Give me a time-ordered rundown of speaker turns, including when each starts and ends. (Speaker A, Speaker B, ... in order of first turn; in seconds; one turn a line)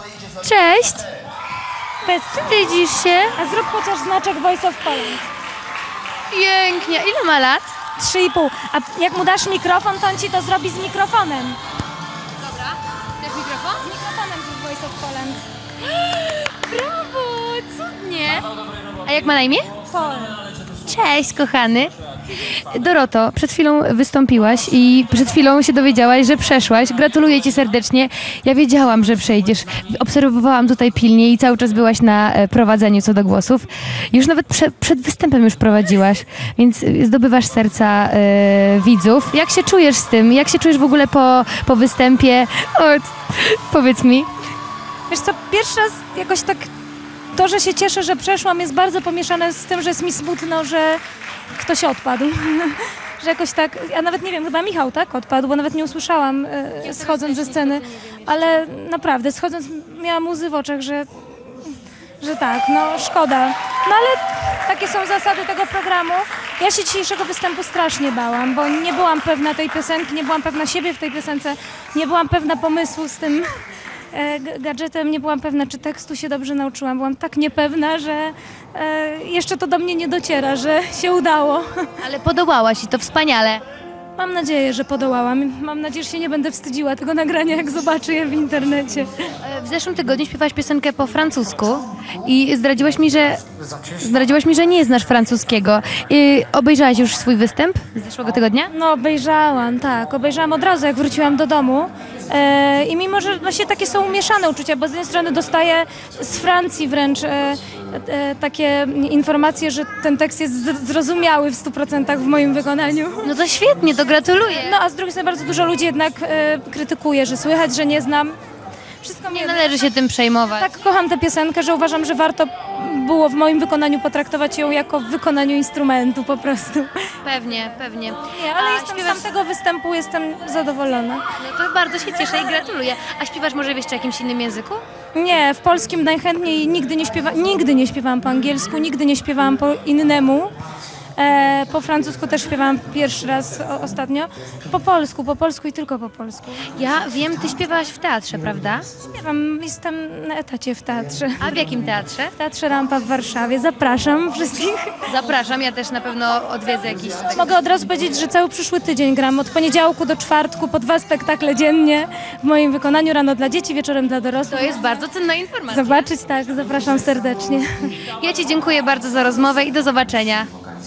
Speaker A: 0.4-1.1
Speaker B: 2.0-2.4
Speaker A: 2.3-3.4
Speaker B: 3.4-5.2
Speaker A: 6.3-7.7
Speaker B: 8.0-11.6
Speaker A: 12.4-13.8
Speaker B: 13.8-15.4
Speaker A: 15.8-18.5
Speaker A: 19.0-19.7
Speaker B: 19.9-20.4
Speaker A: 20.8-44.3
Speaker B: 45.1-46.7
Speaker B: 47.3-51.0
Speaker B: 51.5-73.5
Speaker A: 56.8-58.6
Speaker B: 74.1-81.9
Speaker A: 82.0-83.6
Speaker B: 84.2-89.3
Speaker A: 89.4-98.7
Speaker B: 98.7-113.3
Speaker A: 113.2-114.8
Speaker B: 114.6-118.3
Speaker B: 119.0-119.7
Speaker A: 119.3-120.7
Speaker B: 120.5-127.2
Speaker A: 127.2-129.3
Speaker B: 128.2-131.2
Speaker A: 131.4-134.8
Speaker B: 135.1-140.5
Speaker B: 141.2-146.7
Speaker A: 146.7-148.9
Speaker B: 149.0-151.6
Speaker A: 151.4-152.3
Speaker B: 152.3-155.0
Speaker A: 155.1-157.6
Speaker B: 157.3-165.1
Speaker A: 164.5-166.1
Speaker B: 165.7-167.9
Speaker A: 168.1-170.5